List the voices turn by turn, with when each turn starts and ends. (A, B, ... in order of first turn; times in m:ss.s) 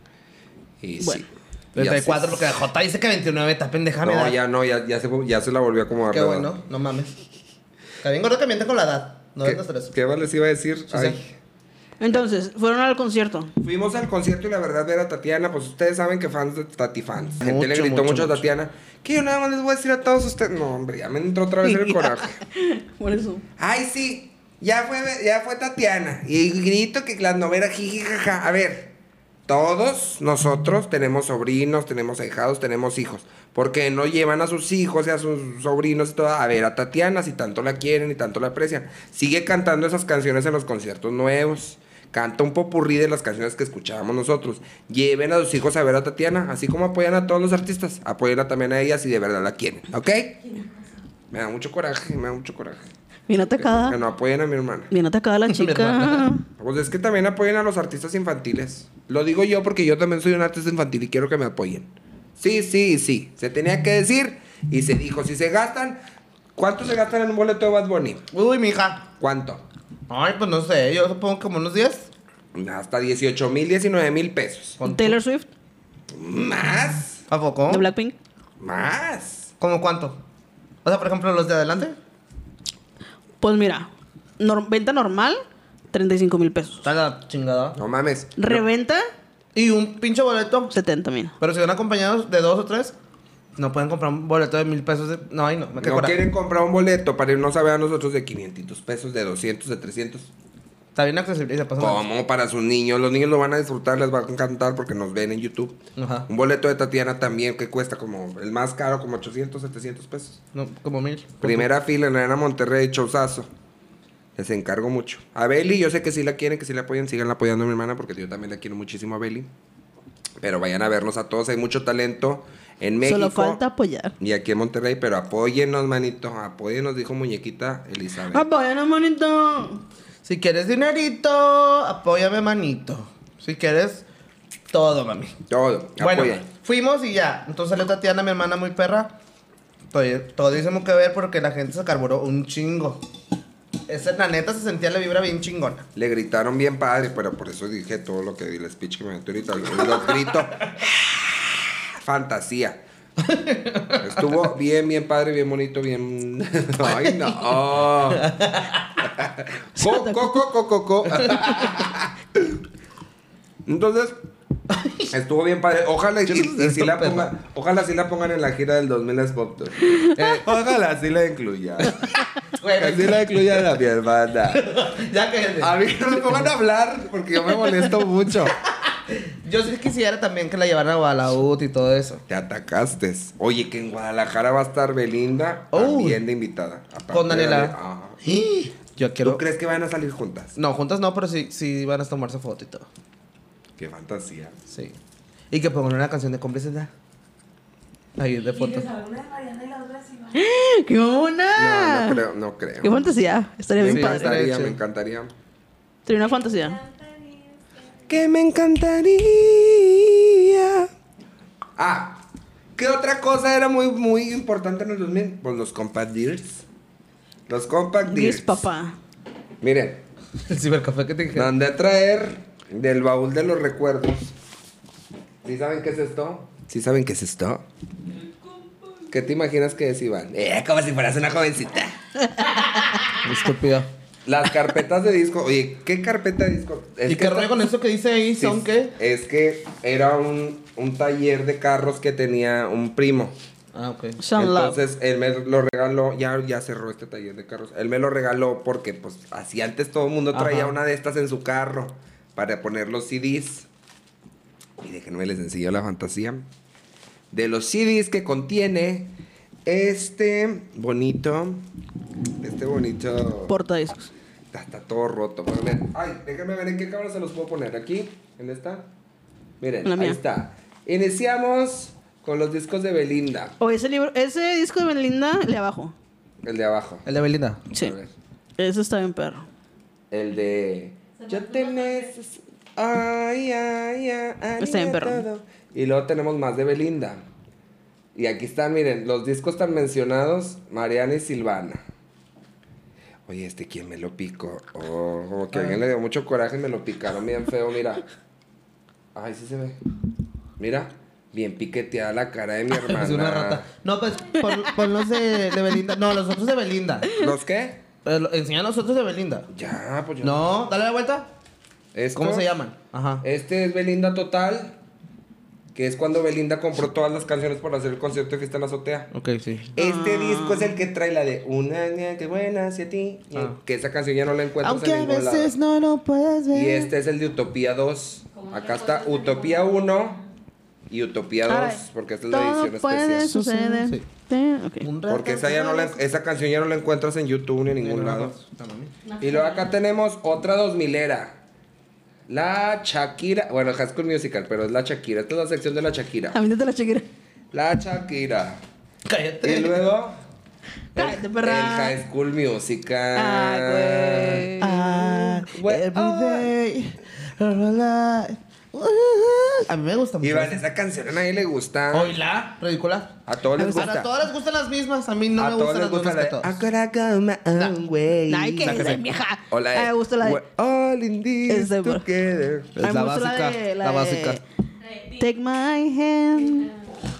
0:00.8-0:02.5 A
0:01.7-0:04.4 B
0:04.0-0:06.6 A
0:06.1-0:07.1 B
0:08.0-0:09.9 B
0:09.4-0:11.3 A
0:10.9-0:11.2 B
0:12.0-0:13.5 C
0:13.6-0:22.4 A
0:17.4-0:18.4 B
0:21.6-0:23.4 C
0:23.6-0:28.9 A
0:29.5-0:50.4 A
0:50.4-0:51.0 D
0:51.3-0:52.9 A
0:53.3-0:54.0 C
0:53.6-0:54.9 A
0:54.9-0:56.4 C
0:55.5-0:56.3 B
0:56.6-1:06.0 A
1:06.6-1:08.2 A
1:08.3-1:09.0 B
1:09.2-1:09.6 A
1:10.1-1:12.1 B
1:12.5-1:14.8 A
1:14.8-1:15.2 B
1:14.8-1:15.5 C
1:16.1-1:17.2 A
1:17.3-1:17.9 B
1:17.7-1:18.1 C
1:18.6-1:19.5 A
1:19.6-1:20.2 B
1:20.8-1:22.0 B
1:23.4-1:26.9 C
1:26.8-1:27.8 B
1:27.8-1:28.6 A
1:28.4-1:29.1 C
1:29.5-1:30.7 B
1:30.7-1:31.3 C
1:31.4-1:32.9 B
1:33.6-1:36.2 B
1:35.8-1:40.3 A
1:40.9-1:42.0 B
1:41.8-1:50.4 A
1:46.0-1:46.3 B
1:50.5-1:51.7 B
1:51.4-1:53.5 A
1:54.4-1:59.5 A
2:00.4-2:03.6 A
2:03.0-2:04.1 C
2:04.2-2:08.4 A
2:08.3-2:09.8 C
2:10.2-2:14.0 B
2:14.7-2:15.4 B
2:15.5-2:16.4 A
2:16.0-2:19.2 B
2:19.9-2:23.0 B
2:23.9-2:25.9 B
2:25.9-2:32.8 A
2:33.2-2:34.4 B
2:34.0-2:38.3 A
2:36.8-2:37.6 B
2:38.1-2:38.9 B
2:39.0-2:42.6 A
2:39.8-2:40.4 C
2:43.6-2:44.2 A
2:44.7-2:45.1 B
2:45.1-2:52.2 A
2:46.2-2:47.3 B
2:50.1-2:50.4 B
2:52.4-2:53.7 B
2:52.8-2:54.6 A
2:54.5-2:56.5 B
2:55.6-2:58.6 A
2:58.8-3:02.2 B
3:02.3-3:08.2 A
3:05.7-3:06.2 B
3:07.1-3:09.4 B
3:09.2-3:10.5 A
3:10.6-3:12.9 B
3:13.8-3:14.6 A
3:14.7-3:15.0 B
3:15.5-3:16.9 B
3:18.2-3:18.9 B
3:18.4-3:20.4 D
3:20.3-3:22.2 C
3:21.6-3:23.1 A
3:22.8-3:24.4 C
3:23.8-3:25.3 A
3:23.8-3:24.8 B
3:26.0-3:26.8 C
3:26.2-3:28.0 D
3:28.1-3:30.9 A
3:31.8-3:36.6 A
3:37.5-3:38.6 A
3:38.0-3:39.0 C
3:39.6-3:40.0 A
3:40.4-3:41.5 B
3:41.3-3:44.3 A
3:45.4-3:47.6 A
3:48.2-3:49.1 D
3:49.1-3:52.0 A
3:52.5-3:52.8 C
3:53.2-3:53.9 B
3:54.2-3:57.6 A
3:57.0-3:58.9 B
3:58.4-4:03.4 A
4:03.7-4:04.2 B
4:04.2-4:04.8 C
4:04.4-4:13.7 A
4:10.3-4:10.7 B
4:14.8-4:16.5 A
4:17.3-4:21.6 A
4:22.4-4:23.5 A
4:23.5-4:24.1 C
4:24.5-4:28.9 A
4:29.6-4:33.6 A
4:29.8-4:30.2 C
4:33.6-4:35.9 C
4:36.4-4:37.0 A
4:37.0-4:37.6 B
4:37.7-4:38.1 A
4:38.6-4:39.5 C
4:40.1-4:47.2 A
4:41.2-4:42.1 D
4:44.6-4:45.2 C
4:48.1-4:51.8 A
4:53.2-4:58.0 A
4:55.5-4:55.8 B
4:59.1-4:59.8 A
5:00.6-5:03.6 A
5:02.7-5:07.1 B
5:07.1-5:07.8 A
5:08.0-5:09.5 B
5:09.5-5:10.4 A
5:10.2-5:11.3 B
5:11.9-5:12.5 A
5:12.1-5:13.2 B
5:13.2-5:14.8 A
5:15.7-5:19.1 A
5:19.1-5:19.7 B
5:19.7-5:25.5 A
5:19.8-5:20.7 C
5:24.6-5:26.9 B
5:26.5-5:30.2 A
5:28.3-5:30.2 D
5:30.9-5:33.3 A
5:31.5-5:34.9 C
5:33.2-5:34.0 B
5:34.8-5:36.0 B
5:35.1-5:38.3 A
5:37.8-5:38.9 B
5:39.0-5:39.7 D
5:39.2-5:41.4 A
5:42.3-5:46.4 A
5:46.3-5:47.1 C
5:47.5-5:48.6 A
5:49.0-5:49.9 B
5:49.4-5:50.2 A
5:50.9-5:52.0 C
5:51.0-5:54.5 A
5:53.1-5:55.4 C
5:54.6-6:00.6 B
5:55.4-5:56.5 A
6:00.2-6:02.2 A
6:01.9-6:06.6 B
6:03.2-6:04.1 A
6:03.6-6:03.9 C
6:05.4-6:08.9 A
6:07.5-6:07.8 B
6:08.3-6:10.4 C
6:08.6-6:09.0 B
6:09.5-6:12.8 A
6:11.5-6:12.0 C
6:12.8-6:14.4 B
6:12.8-6:14.4 C
6:14.8-6:15.2 D
6:15.1-6:16.8 C
6:16.4-6:16.8 D